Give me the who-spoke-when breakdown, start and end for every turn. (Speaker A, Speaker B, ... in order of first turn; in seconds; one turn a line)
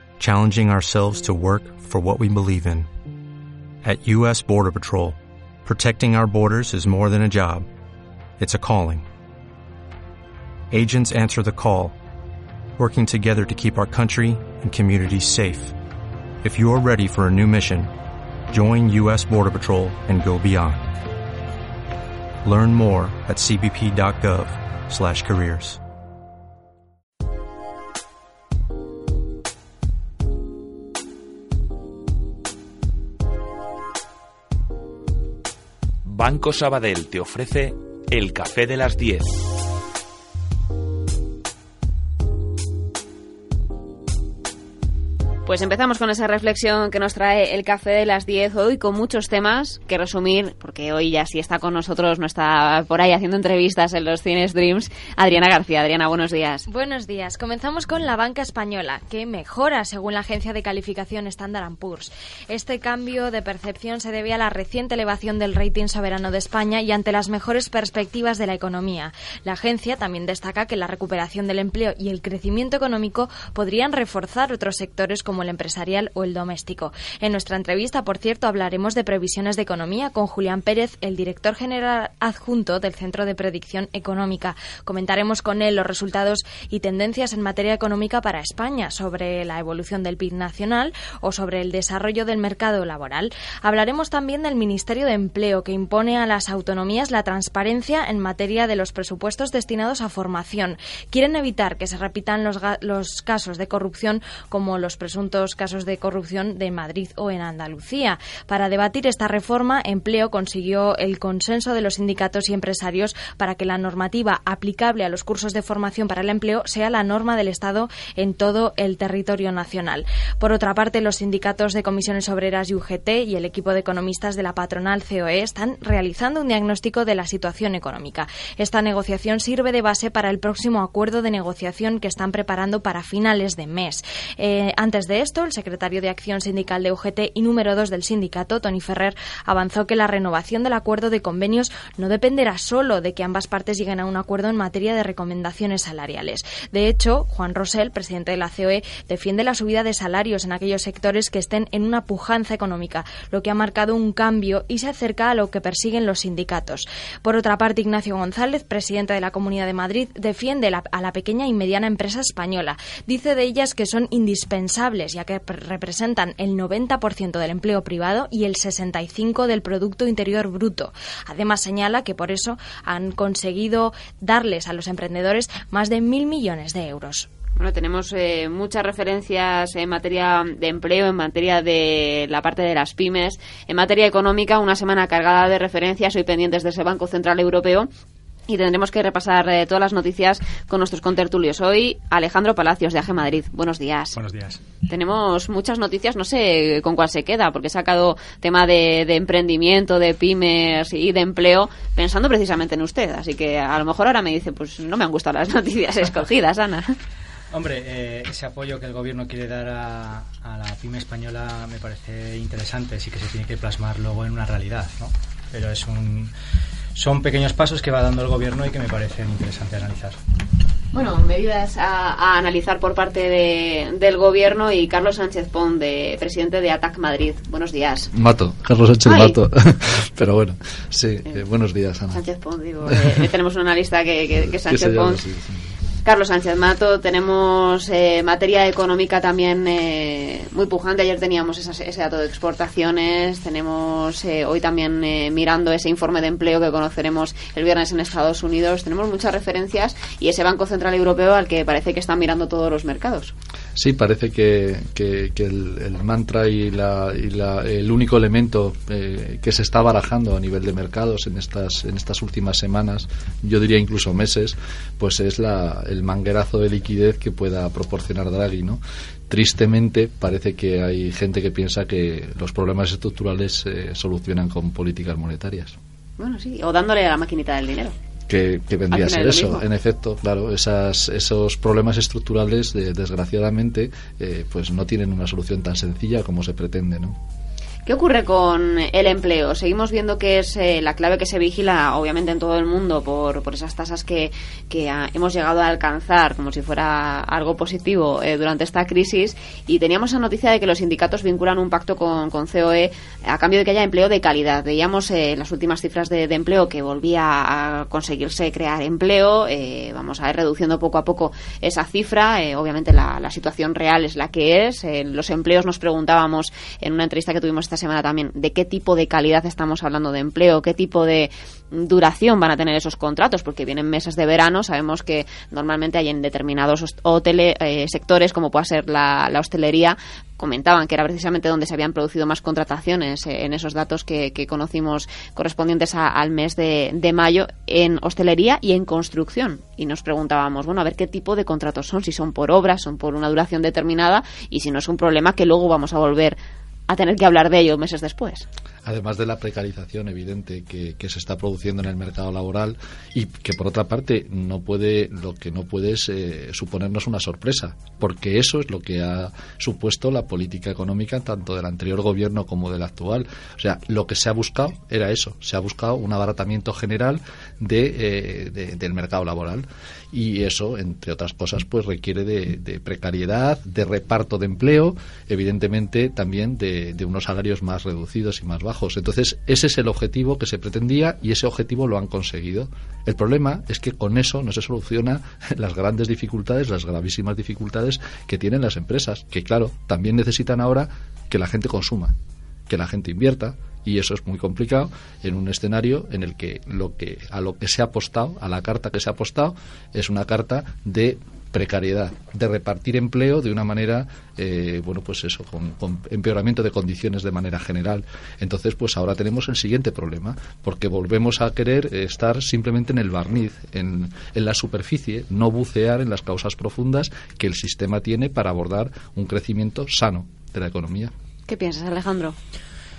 Speaker A: 0.2-2.9
Speaker A: 3.8-7.7
Speaker A: 8.4-9.1
Speaker A: 10.7-12.0
Speaker A: 12.8-15.8
Speaker A: 16.4-17.9
Speaker A: 18.5-20.9
Speaker A: 22.4-25.8
Speaker B: 36.0-39.3
Speaker C: 45.5-56.7
Speaker D: 56.7-177.3
Speaker C: 177.6-187.9
Speaker C: 188.5-194.2
Speaker E: 194.2-194.6
Speaker C: 194.9-206.9
Speaker E: 207.5-216.3
Speaker E: 216.9-220.2
Speaker C: 220.9-228.1
Speaker F: 228.1-232.2
Speaker C: 229.1-229.4
Speaker C: 232.1-235.2
Speaker F: 232.9-233.3
Speaker F: 234.5-235.7
Speaker C: 236.0-253.3
Speaker F: 253.8-275.8
Speaker C: 276.2-277.9
Speaker F: 278.3-287.2
Speaker C: 278.9-279.6
Speaker C: 287.9-346.4
Speaker C: 346.9-348.5
Speaker F: 348.9-392.1
Speaker F: 392.7-421.1
Speaker C: 421.5-422.4